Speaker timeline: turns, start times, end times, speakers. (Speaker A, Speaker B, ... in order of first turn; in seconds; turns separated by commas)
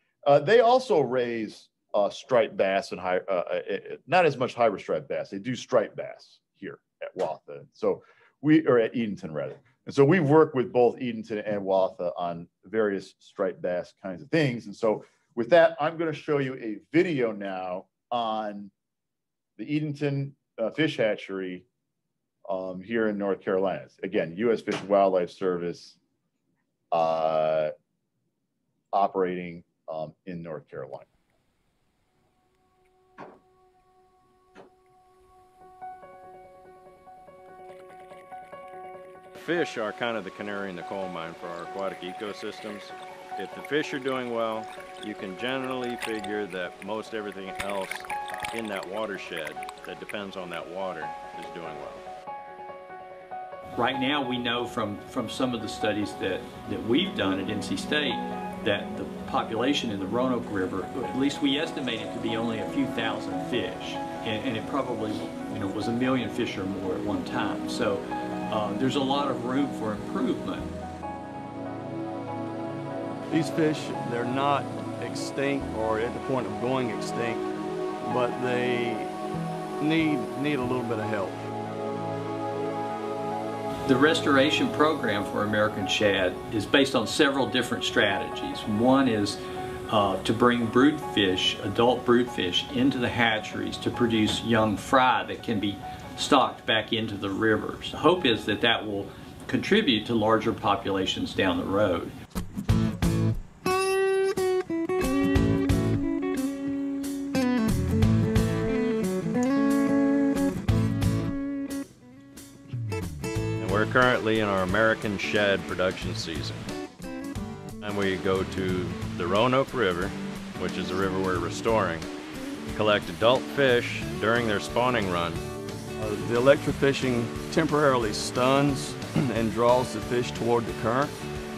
Speaker A: 0.2-18.7, Speaker A: 19.6-21.6, Speaker A: 22.5-26.0, Speaker A: 26.9-27.7, Speaker A: 28.9-31.1, Speaker B: 39.4-52.0, Speaker C: 53.8-70.7, Speaker D: 73.3-77.5, Speaker D: 78.0-79.1, Speaker D: 79.8-81.5, Speaker C: 83.9-102.2, Speaker B: 113.6-116.7, Speaker B: 117.8-122.0, Speaker B: 122.7-125.4, Speaker D: 126.0-131.1